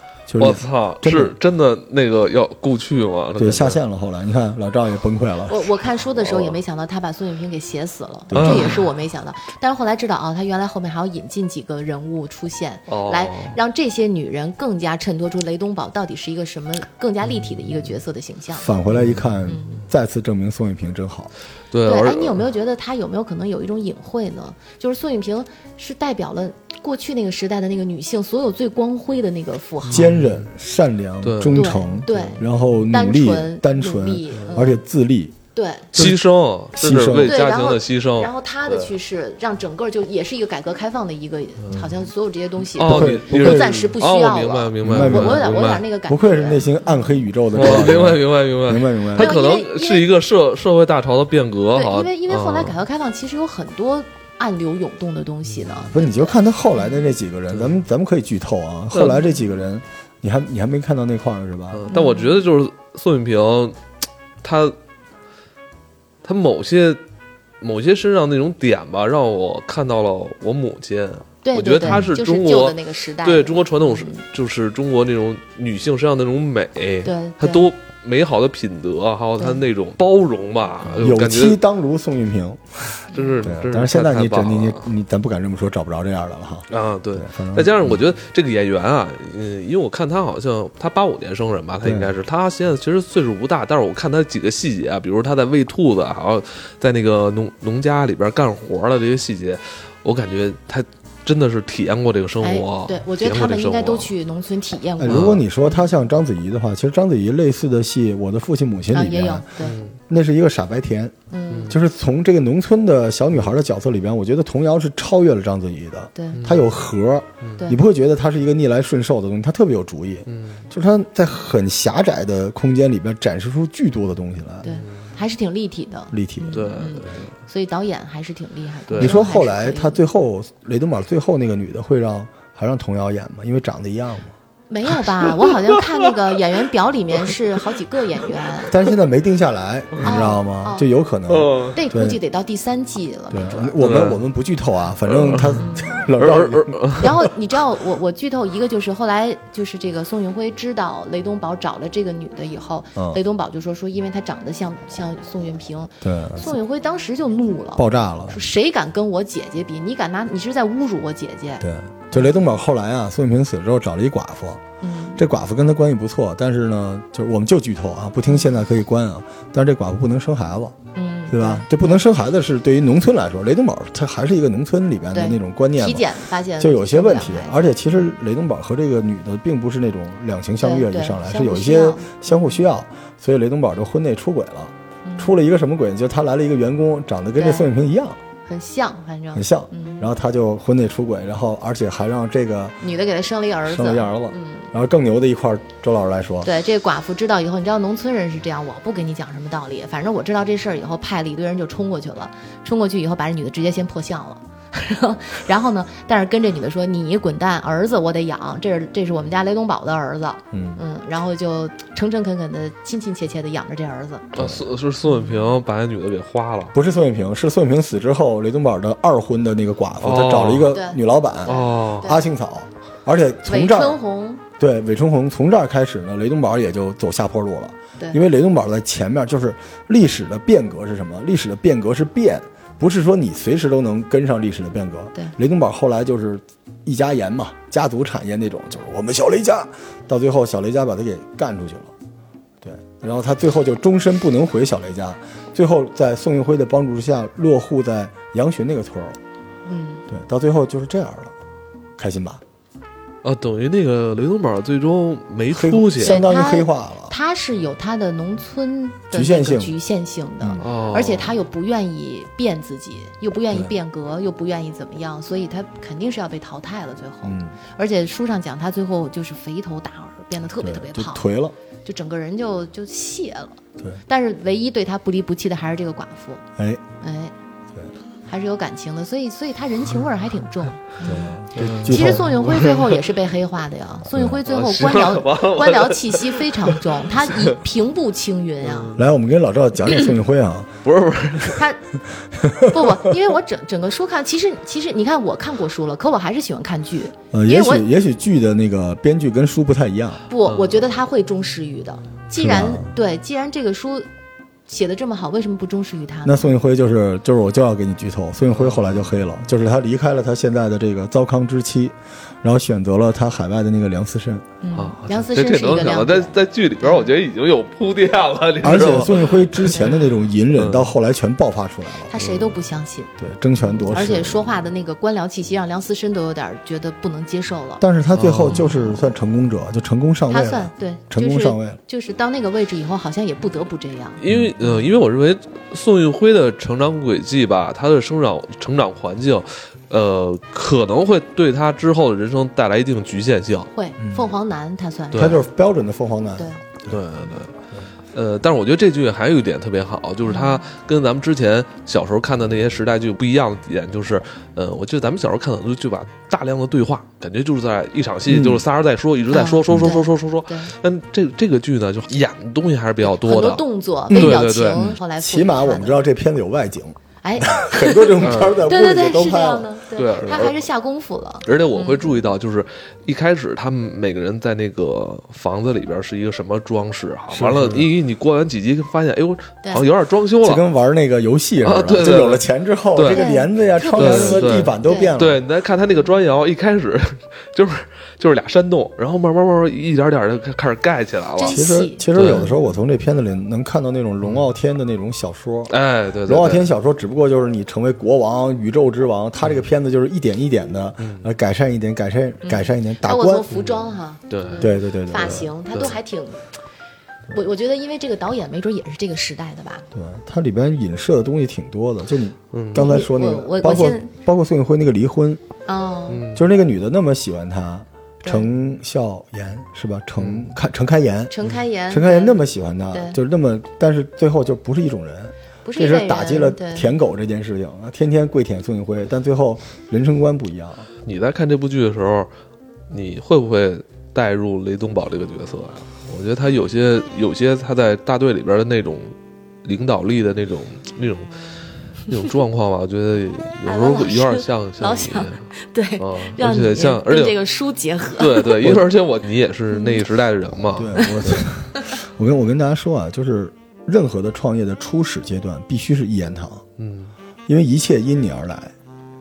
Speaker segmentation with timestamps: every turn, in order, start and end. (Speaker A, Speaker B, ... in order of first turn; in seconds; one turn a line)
Speaker A: 0.3-1.3
Speaker B: 0.4-3.8
Speaker A: 3.4-5.7
Speaker C: 5.5-18.7
Speaker B: 6.2-6.5
Speaker A: 8.3-8.8
Speaker B: 8.3-8.8
Speaker B: 12.9-13.6
Speaker A: 18.6-21.3
Speaker B: 18.9-19.6
Speaker C: 19.5-19.8
Speaker B: 21.7-22.4
Speaker C: 21.8-30.1
Speaker B: 29.9-30.4
Speaker A: 29.9-35.4
Speaker B: 31.2-32.4
Speaker C: 31.5-34.8
Speaker B: 34.4-34.7
Speaker C: 35.5-35.9
Speaker A: 35.9-36.2
Speaker B: 35.9-38.9
Speaker A: 36.7-37.4
Speaker C: 37.2-47.0
Speaker B: 41.6-41.9
Speaker B: 42.8-45.8
Speaker A: 42.8-43.8
Speaker A: 44.8-49.3
Speaker B: 47.5-52.8
Speaker C: 49.1-50.1
Speaker C: 51.7-57.0
Speaker B: 55.5-55.8
Speaker A: 55.9-61.8
Speaker B: 58.9-59.2
Speaker B: 61.7-63.8
Speaker C: 61.9-62.4
Speaker B: 64.4-64.8
Speaker B: 66.2-67.0
Speaker B: 67.6-81.6
Speaker C: 71.4-74.2
Speaker C: 77.0-77.7
Speaker C: 79.4-79.6
Speaker A: 81.0-88.0
Speaker B: 83.1-84.9
Speaker C: 83.1-83.5
Speaker B: 86.7-104.1
Speaker A: 91.8-92.1
Speaker C: 102.4-105.9
Speaker A: 105.0-109.5
Speaker B: 105.1-105.4
Speaker C: 108.9-109.8
Speaker B: 109.6-110.0
Speaker A: 110.1-111.1
Speaker C: 111.3-111.7
Speaker B: 111.5-111.8
Speaker A: 111.7-124.7
Speaker C: 116.1-116.4
Speaker B: 116.3-116.7
Speaker B: 117.4-117.7
Speaker B: 120.2-120.6
Speaker C: 124.6-130.0
Speaker B: 124.7-125.1
Speaker A: 126.1-126.9
Speaker B: 126.5-127.3
Speaker B: 128.9-129.2
Speaker A: 129.0-134.3
Speaker C: 134.7-138.7
Speaker B: 135.2-135.9
Speaker A: 138.7-142.2
Speaker C: 140.0-140.9
Speaker B: 141.3-141.8
Speaker C: 141.7-143.8
Speaker A: 143.3-147.1
Speaker B: 143.8-144.2
Speaker B: 145.1-147.1
Speaker C: 145.6-146.1
Speaker C: 146.9-162.3
Speaker A: 156.0-156.5
Speaker A: 157.8-158.4
Speaker A: 161.6-164.6
Speaker C: 164.8-165.2
Speaker A: 165.2-170.8
Speaker C: 170.9-172.0
Speaker A: 171.3-176.1
Speaker C: 175.1-178.1
Speaker A: 176.6-188.2
Speaker C: 180.6-182.6
Speaker C: 185.0-185.4
Speaker C: 187.4-187.7
Speaker C: 188.5-190.1
Speaker A: 189.3-192.8
Speaker C: 192.8-194.7
Speaker A: 193.6-196.5
Speaker C: 196.4-214.4
Speaker A: 210.5-210.8
Speaker B: 214.3-216.7
Speaker C: 215.0-215.6
Speaker A: 216.7-224.0
Speaker B: 220.0-220.7
Speaker C: 220.7-222.2
Speaker B: 221.4-222.1
Speaker C: 223.5-224.4
Speaker A: 224.6-241.9
Speaker A: 242.6-249.2
Speaker C: 249.7-250.1
Speaker A: 250.1-251.3
Speaker A: 252.0-252.4
Speaker B: 253.2-256.2
Speaker A: 255.5-257.1
Speaker C: 256.0-271.2
Speaker A: 259.1-259.7
Speaker B: 260.6-261.3
Speaker A: 267.2-267.6
Speaker A: 270.6-271.5
Speaker C: 271.8-276.4
Speaker A: 276.6-276.8
Speaker C: 277.0-277.3
Speaker C: 278.2-288.9
Speaker A: 281.0-282.3
Speaker B: 281.5-283.0
Speaker B: 284.4-287.6
Speaker B: 288.6-289.1
Speaker A: 288.9-290.7
Speaker B: 290.8-291.6
Speaker C: 291.5-291.8
Speaker A: 292.3-293.0
Speaker C: 292.6-297.8
Speaker A: 297.3-300.2
Speaker C: 300.3-304.1
Speaker B: 300.4-300.8
Speaker A: 302.4-302.9
Speaker C: 304.7-306.5
Speaker A: 306.2-314.4
Speaker B: 308.5-308.9
Speaker C: 314.6-317.1
Speaker B: 314.7-319.8
Speaker A: 318.6-322.1
Speaker C: 319.7-320.1
Speaker B: 320.6-320.9
Speaker C: 322.1-323.1
Speaker B: 322.2-322.5
Speaker A: 323.2-324.4
Speaker B: 323.9-324.2
Speaker C: 323.9-327.8
Speaker A: 327.8-331.8
Speaker B: 328.1-328.7
Speaker C: 328.5-329.0
Speaker C: 330.3-334.8
Speaker B: 334.2-343.7
Speaker A: 334.3-334.5
Speaker C: 343.7-345.4
Speaker A: 344.0-344.3
Speaker B: 345.1-345.4
Speaker A: 345.1-347.0
Speaker B: 346.9-347.5
Speaker B: 348.1-365.0
Speaker C: 350.2-350.6
Speaker A: 358.3-358.6
Speaker C: 359.3-360.7
Speaker A: 359.7-359.9
Speaker C: 363.0-366.0
Speaker A: 364.1-370.4
Speaker C: 367.2-372.2
Speaker B: 368.2-368.6
Speaker B: 369.9-370.6
Speaker B: 371.4-380.6
Speaker A: 377.3-377.9
Speaker A: 380.4-385.4
Speaker B: 381.6-383.2
Speaker C: 383.1-385.1
Speaker B: 384.0-392.5
Speaker C: 391.4-392.5
Speaker A: 391.5-395.7
Speaker B: 394.2-394.5
Speaker B: 395.7-396.7
Speaker A: 396.2-403.4
Speaker B: 401.0-401.3
Speaker C: 402.4-406.4
Speaker B: 403.5-404.7
Speaker A: 404.6-405.5
Speaker B: 405.2-405.9
Speaker C: 407.3-409.8
Speaker A: 409.9-415.4
Speaker B: 412.5-412.8
Speaker C: 412.7-414.1
Speaker C: 415.6-416.3
Speaker B: 416.1-416.4
Speaker A: 416.3-421.3
Speaker B: 420.2-420.5
Speaker C: 421.3-422.4
Speaker A: 421.9-430.9
Speaker C: 422.9-423.2
Speaker C: 425.6-426.9
Speaker B: 431.0-432.3
Speaker B: 432.9-441.3
Speaker B: 442.1-445.5
Speaker C: 443.6-448.8
Speaker B: 446.0-447.4
Speaker B: 448.1-451.4
Speaker A: 450.7-456.6
Speaker C: 451.0-451.8
Speaker B: 456.8-457.1
Speaker A: 457.5-458.7